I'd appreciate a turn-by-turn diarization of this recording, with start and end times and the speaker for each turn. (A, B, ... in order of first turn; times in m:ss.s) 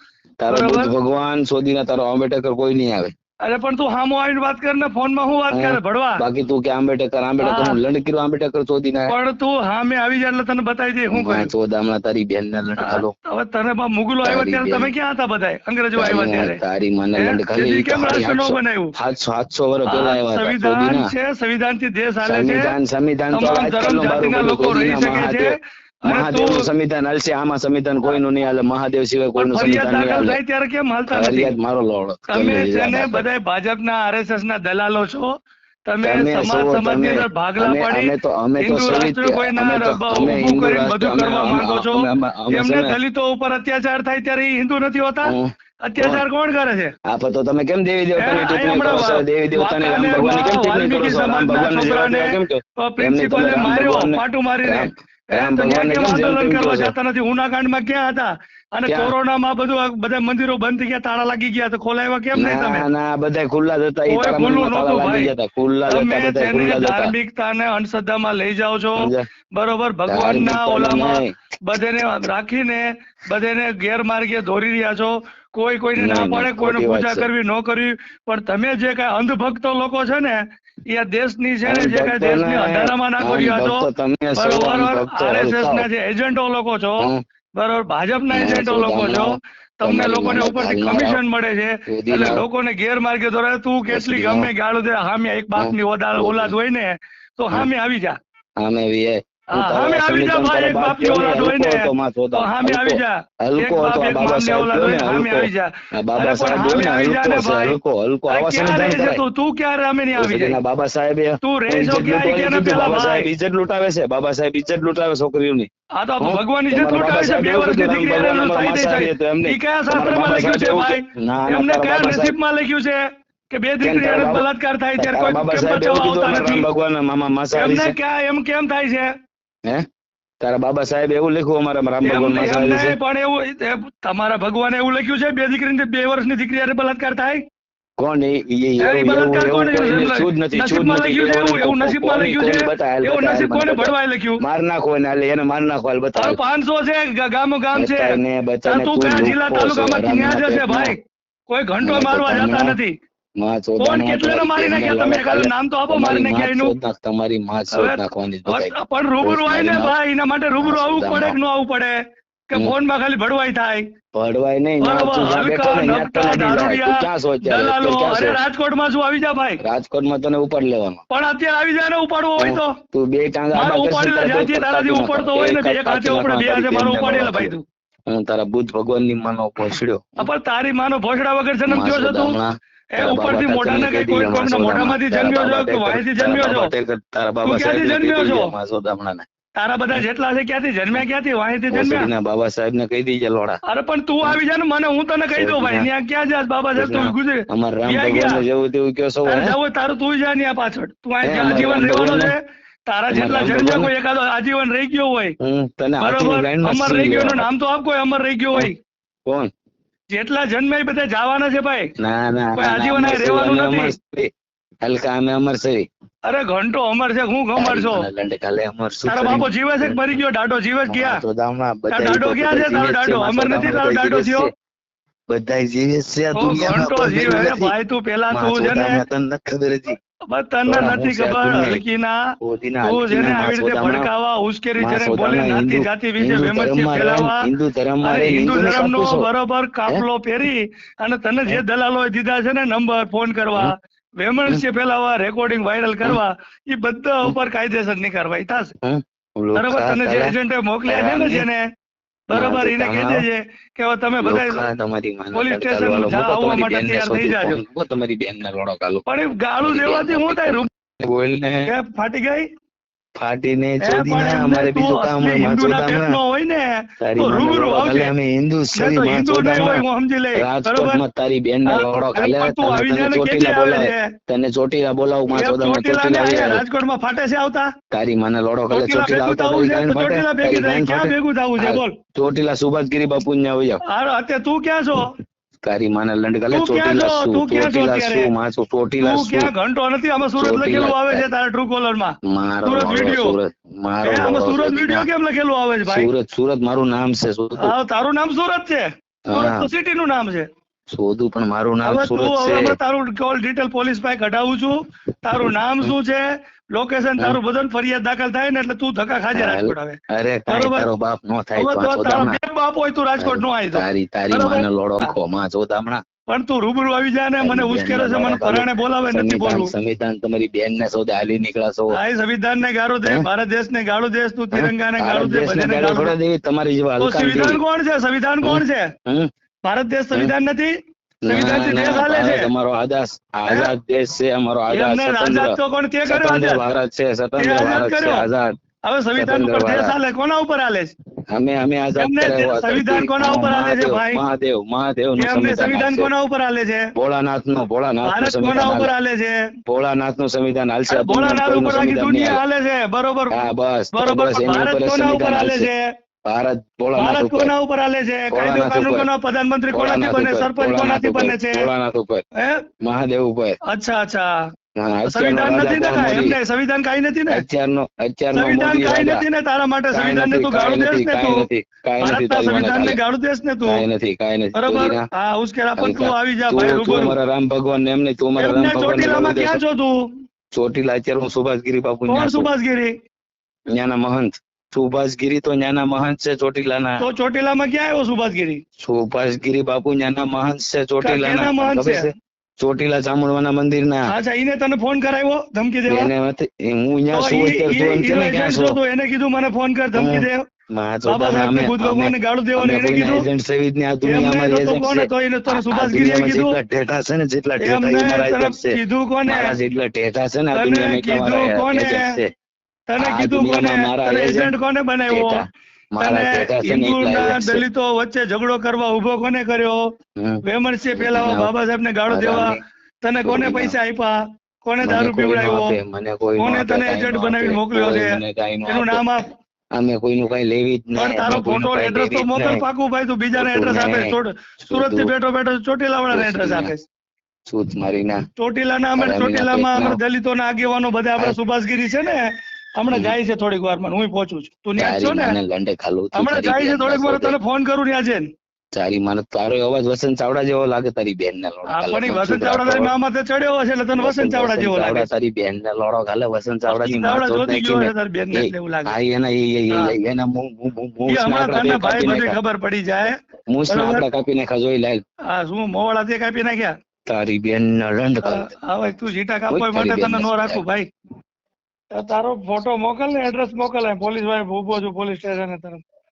0:00.4-0:03.1 A
0:00.5-0:00.9 B
0:03.4-0:06.2 B
0:05.5-0:09.2 A
0:07.4-0:07.8 B
0:09.1-0:11.5 B
0:11.1-0:13.1 A
0:12.8-0:16.6 B
0:14.2-0:14.9 A
0:15.9-0:21.1 A
0:17.2-0:18.9 B
0:19.8-0:22.8 B
0:22.2-0:30.4 A
0:23.3-0:26.7 B
0:29.4-0:31.6 B
0:31.1-0:33.2 A
0:32.3-0:35.3 B
0:35.8-0:46.9 B
0:36.0-0:43.0 A
0:45.2-0:46.2 A
0:47.0-0:56.9 A
0:48.2-1:02.9 B
0:58.8-0:59.1 A
1:02.3-1:07.1 A
1:04.0-1:05.3 B
1:05.9-1:38.1 B
1:09.0-1:09.3 A
1:10.1-1:11.3 A
1:16.0-1:17.3 A
1:21.6-1:25.9 A
1:28.3-1:31.2 A
1:31.9-1:32.4 A
1:33.9-1:34.5 A
1:35.6-1:36.5 A
1:38.6-1:49.2 A
1:39.5-1:50.6 B
1:50.1-1:55.7 A
1:51.4-1:53.3 B
1:56.0-2:06.7 B
1:56.2-2:02.4 A
2:03.8-2:08.0 A
2:07.5-2:09.1 B
2:10.4-2:13.0 A
2:12.0-2:17.4 B
2:18.0-2:26.4 A
2:18.8-2:24.4 B
2:26.1-2:32.9 B
2:27.7-2:31.0 A
2:31.8-2:32.8 A
2:33.4-2:40.0 A
2:33.8-2:36.7 B
2:37.7-2:42.0 B
2:40.6-2:41.4 A
2:42.5-2:43.8 B
2:44.1-2:48.4 A
2:44.8-2:49.6 B
2:49.6-2:51.0 A
2:51.1-2:52.8 B
2:52.4-2:57.6 A
2:53.5-2:57.6 B
2:58.1-3:00.3 A
3:00.2-3:02.4 B
3:01.6-3:09.3 A
3:02.9-3:06.7 B
3:07.4-3:08.5 B
3:09.6-3:12.1 B
3:11.7-3:13.6 A
3:13.7-3:18.4 B
3:15.3-3:15.9 A
3:16.7-3:19.6 A
3:19.2-3:25.4 B
3:21.2-3:22.3 A
3:23.1-3:23.9 A
3:25.4-3:27.5 A
3:26.0-3:28.8 B
3:29.2-3:29.5 A
3:30.2-3:31.9 B
3:32.0-3:34.3 A
3:32.5-3:34.0 B
3:34.8-3:35.9 A
3:36.2-3:38.0 B
3:37.6-3:40.2 A
3:39.0-3:41.2 B
3:40.9-3:44.5 A
3:41.9-3:44.5 B
3:45.3-3:47.7 A
3:46.3-3:49.0 B
3:48.3-3:50.0 A
3:50.3-3:52.2 B
3:50.6-3:51.8 A
3:52.4-3:54.1 A
3:52.8-3:57.5 B
3:54.8-3:59.3 A
3:58.0-4:08.7 B
4:08.8-4:10.3 A
4:09.5-4:11.6 B
4:10.9-4:11.5 A
4:12.3-4:14.7 B
4:12.3-4:13.2 A
4:14.2-4:19.0 A
4:15.3-4:17.6 B
4:19.0-4:20.7 B
4:19.6-4:21.7 A
4:21.6-4:22.4 B
4:23.2-4:26.2 A
4:23.8-4:28.1 B
4:27.0-4:36.6 A
4:28.7-4:31.0 B
4:31.7-4:34.2 B
4:35.3-4:37.7 B
4:37.9-4:43.8 A
4:38.7-4:42.0 B
4:43.9-4:45.1 B
4:45.6-4:49.5 A
4:46.5-4:48.3 B
4:49.0-4:53.4 B
4:50.4-4:51.3 A
4:52.2-4:55.1 A
4:54.0-4:56.1 B
4:55.8-4:57.8 A
4:57.6-5:00.5 B
4:59.2-4:59.7 A
5:00.9-5:02.8 A
5:01.8-5:10.9 B
5:09.3-5:12.4 A
5:11.6-5:15.2 B
5:13.2-5:16.0 A
5:16.3-5:19.7 B
5:17.4-5:22.0 A
5:21.9-5:26.1 B
5:24.5-5:27.6 A
5:27.0-5:28.9 B
5:28.4-5:29.3 A
5:29.6-5:30.7 B
5:31.2-5:38.5 A
5:31.2-5:32.5 B
5:33.4-5:33.7 B
5:34.7-5:36.6 B
5:37.4-5:38.3 B
5:38.8-5:40.9 B
5:39.1-5:40.0 A
5:41.3-5:46.1 A
5:42.0-5:44.2 B
5:45.2-5:46.9 B
5:46.9-5:48.9 A
5:48.0-5:49.4 B
5:49.6-5:52.4 A
5:50.9-5:55.8 B
5:53.3-5:55.7 A
5:56.2-5:57.5 A
5:56.9-6:01.7 B
5:58.3-5:59.1 A
5:59.7-6:02.2 A
6:02.4-6:02.6 B
6:02.8-6:03.6 A
6:03.7-6:04.3 B
6:04.8-6:06.4 A
6:05.0-6:07.4 B
6:07.3-6:09.2 A
6:08.3-6:13.8 B
6:09.9-6:13.0 A
6:13.6-6:15.0 A
6:14.5-6:17.2 B
6:15.8-6:19.6 A
6:18.4-6:20.1 B
6:20.5-6:22.5 A
6:22.1-6:22.9 B
6:23.7-6:27.0 A
6:27.0-6:28.6 B
6:28.8-6:34.1 A
6:31.0-6:32.1 B
6:34.1-6:36.1 B
6:35.9-6:38.8 A
6:37.1-6:40.4 B
6:39.9-6:52.3 A
6:41.0-6:43.3 B
6:44.0-6:46.6 B
6:47.6-6:49.5 B
6:50.5-6:52.2 B
6:52.9-6:55.4 B
6:53.0-6:54.5 A
6:55.1-6:57.6 A
6:56.0-6:59.8 B
7:00.2-7:01.5 A
7:00.4-7:05.8 B
7:02.1-7:02.6 A
7:03.2-7:03.8 A
7:04.8-7:09.1 A
7:06.4-7:09.3 B
7:09.7-7:12.6 A
7:10.9-7:16.8 B
7:13.4-7:15.1 A
7:16.1-7:16.7 A
7:17.5-7:18.2 A
7:18.4-7:22.2 B
7:19.0-7:20.0 A
7:22.8-7:25.4 B
7:22.9-7:23.2 A
7:24.8-7:27.4 A
7:26.1-7:28.3 B
7:28.7-7:32.9 A
7:31.7-7:35.1 B
7:34.0-7:42.4 A
7:36.6-7:39.0 B
7:41.0-7:43.2 B
7:43.5-7:45.0 A
7:43.7-7:44.1 B
7:45.3-7:46.7 B
7:47.0-7:48.5 A
7:48.2-7:50.9 B
7:49.5-7:50.6 A
7:51.9-7:55.8 B